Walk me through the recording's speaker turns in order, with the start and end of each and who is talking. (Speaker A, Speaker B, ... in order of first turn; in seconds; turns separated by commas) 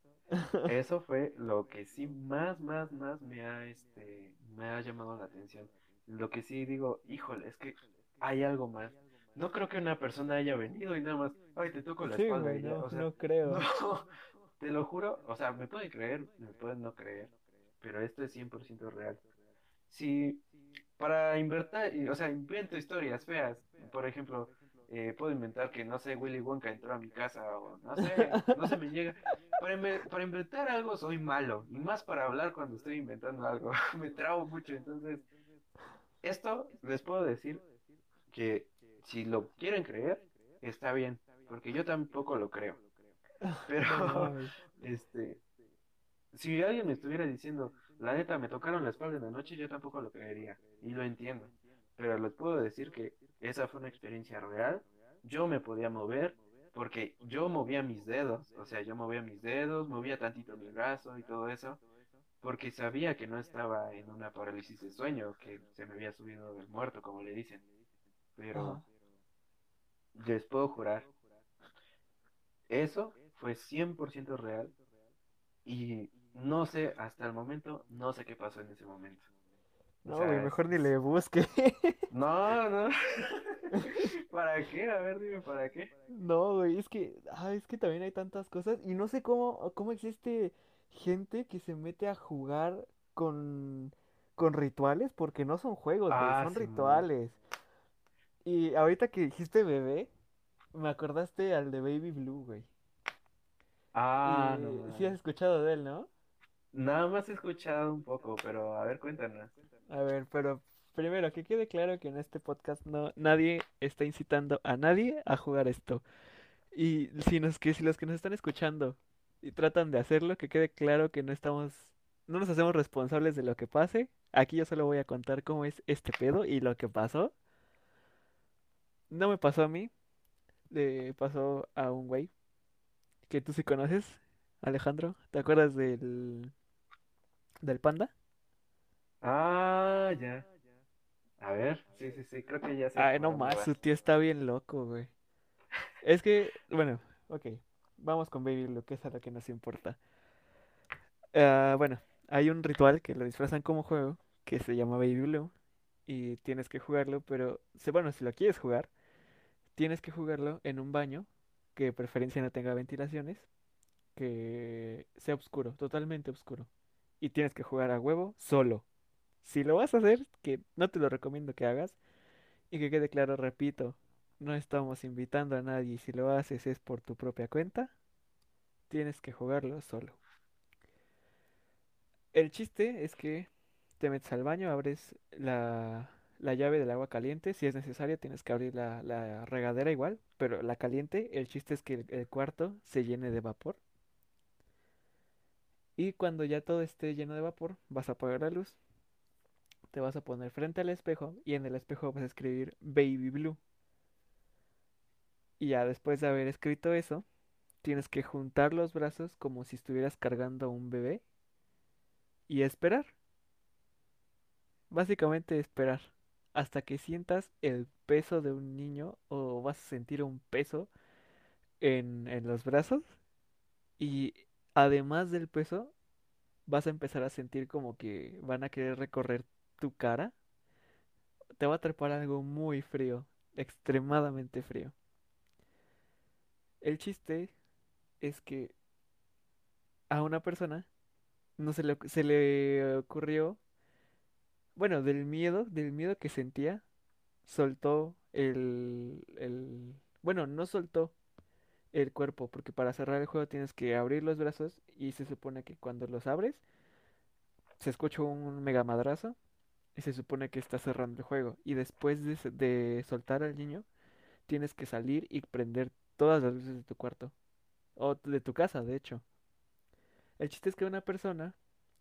Speaker A: 0.3-0.7, Speaker B: 0.6-14.1, Speaker A: 12.0-13.6, Speaker B: 14.6-19.2, Speaker B: 19.9-20.4, Speaker B: 21.0-35.2, Speaker A: 28.1-28.5, Speaker B: 36.2-37.6, Speaker B: 38.3-42.8, Speaker A: 43.4-44.5, Speaker B: 43.6-45.4, Speaker B: 46.3-61.8, Speaker B: 62.4-67.6, Speaker B: 68.3-68.8, Speaker A: 68.5-68.8, Speaker B: 70.1-71.1, Speaker B: 72.7-74.7, Speaker B: 75.6-79.3, Speaker A: 80.0-82.0, Speaker B: 80.1-80.9, Speaker B: 82.1-85.9, Speaker A: 83.7-84.1, Speaker A: 86.1-97.4, Speaker B: 96.1-97.1, Speaker A: 98.4-100.1, Speaker A: 100.7-102.7, Speaker B: 103.9-105.2, Speaker A: 104.2-106.1, Speaker B: 106.7-109.5, Speaker A: 109.9-116.0, Speaker A: 116.7-127.3, Speaker A: 129.1-129.9, Speaker A: 130.7-132.3, Speaker A: 133.3-136.5, Speaker A: 137.6-138.1, Speaker B: 139.2-140.5, Speaker B: 141.4-143.8, Speaker A: 142.9-145.1, Speaker A: 146.0-150.0, Speaker A: 151.3-155.5, Speaker A: 156.1-158.9, Speaker A: 159.7-163.5, Speaker A: 164.1-166.7, Speaker A: 167.2-168.8, Speaker A: 169.4-172.0, Speaker A: 172.7-177.9, Speaker A: 178.9-180.2, Speaker A: 182.3-193.8, Speaker A: 195.9-198.8, Speaker A: 199.9-203.6, Speaker A: 205.6-207.2, Speaker A: 207.8-211.2, Speaker A: 212.5-213.1, Speaker A: 214.9-220.9, Speaker A: 221.8-223.1, Speaker A: 224.0-225.9, Speaker A: 226.7-230.3, Speaker A: 231.6-234.9, Speaker A: 236.8-237.5, Speaker A: 238.2-238.7, Speaker A: 240.1-240.9, Speaker A: 241.6-243.6, Speaker A: 244.8-246.8, Speaker A: 247.4-251.1, Speaker A: 251.9-256.6, Speaker A: 257.8-259.4, Speaker A: 259.9-263.9, Speaker A: 264.5-267.3, Speaker A: 267.9-269.2, Speaker A: 270.4-271.6